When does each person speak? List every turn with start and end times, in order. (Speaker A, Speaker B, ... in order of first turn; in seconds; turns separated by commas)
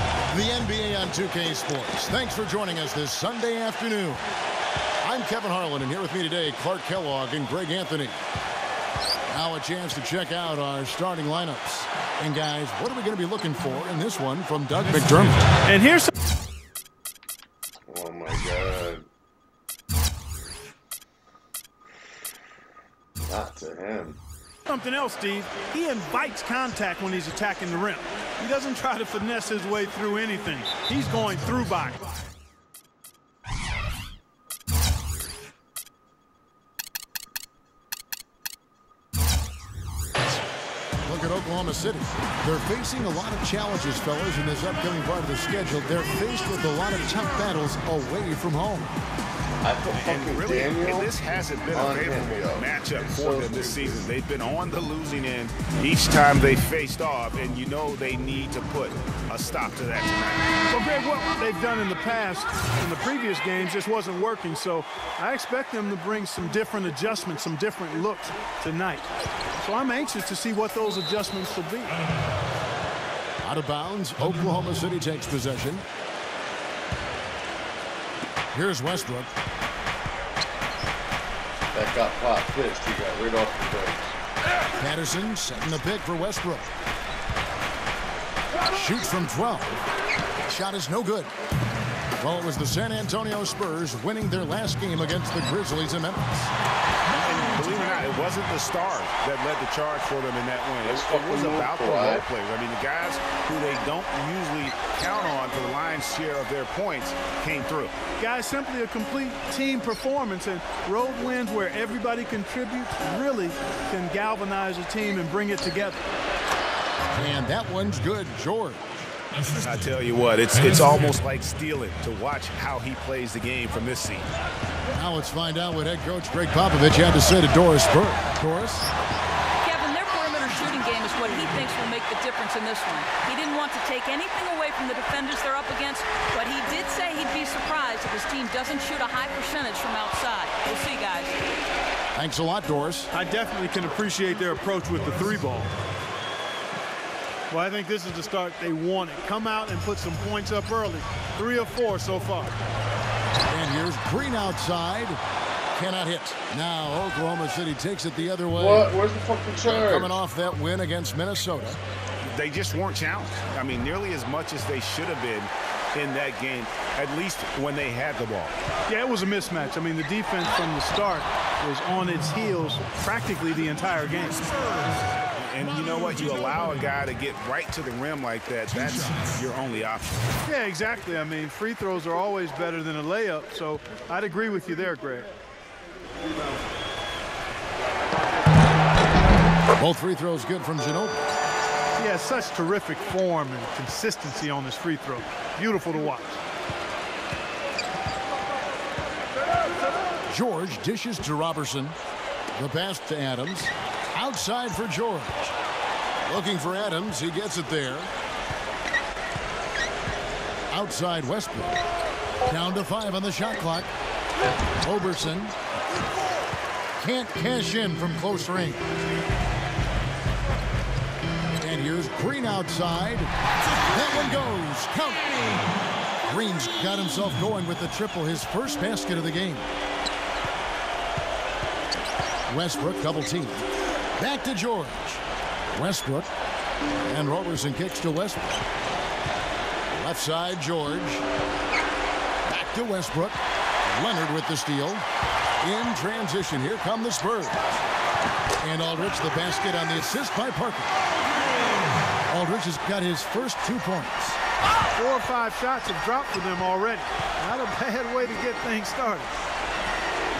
Speaker A: 0.3-4.2, Speaker A: 5.0-8.2, Speaker A: 9.3-15.4, Speaker B: 15.6-16.1, Speaker C: 17.9-19.0, Speaker C: 23.2-24.2, Speaker B: 24.6-32.0, Speaker A: 41.0-48.9, Speaker C: 49.6-51.1, Speaker D: 49.9-60.5, Speaker C: 51.7-54.1, Speaker B: 60.6-71.9, Speaker A: 73.4-75.8, Speaker A: 78.5-79.3, Speaker C: 81.7-84.2, Speaker A: 84.8-86.7, Speaker A: 88.7-89.8, Speaker A: 90.5-91.3, Speaker A: 92.2-96.5, Speaker D: 97.2-108.0, Speaker C: 100.8-102.2, Speaker B: 108.2-116.0, Speaker A: 117.1-119.1, Speaker D: 119.6-124.3, Speaker A: 124.9-128.9, Speaker E: 129.6-141.3, Speaker A: 142.1-143.1, Speaker B: 143.1-145.7, Speaker B: 147.5-152.6, Speaker A: 153.5-155.2, Speaker A: 155.7-158.9, Speaker C: 158.6-160.1, Speaker A: 159.6-161.8, Speaker D: 162.2-168.5, Speaker B: 168.9-174.4, Speaker D: 175.3-180.3, Speaker B: 180.4-185.3, Speaker A: 189.8-191.2, Speaker B: 191.9-196.4, Speaker A: 200.3-201.9, Speaker A: 202.6-205.5, Speaker A: 206.2-208.1, Speaker A: 210.7-211.7, Speaker A: 212.4-213.9, Speaker A: 214.8-215.5, Speaker A: 217.0-218.8, Speaker A: 221.6-223.3, Speaker A: 223.9-225.7, Speaker A: 226.2-229.7, Speaker A: 232.5-233.6, Speaker A: 234.2-236.3, Speaker A: 237.0-238.6, Speaker A: 239.9-241.2, Speaker A: 242.4-243.4, Speaker A: 243.9-245.0, Speaker A: 245.6-247.7, Speaker A: 248.6-251.0, Speaker A: 252.3-254.4, Speaker B: 254.9-259.3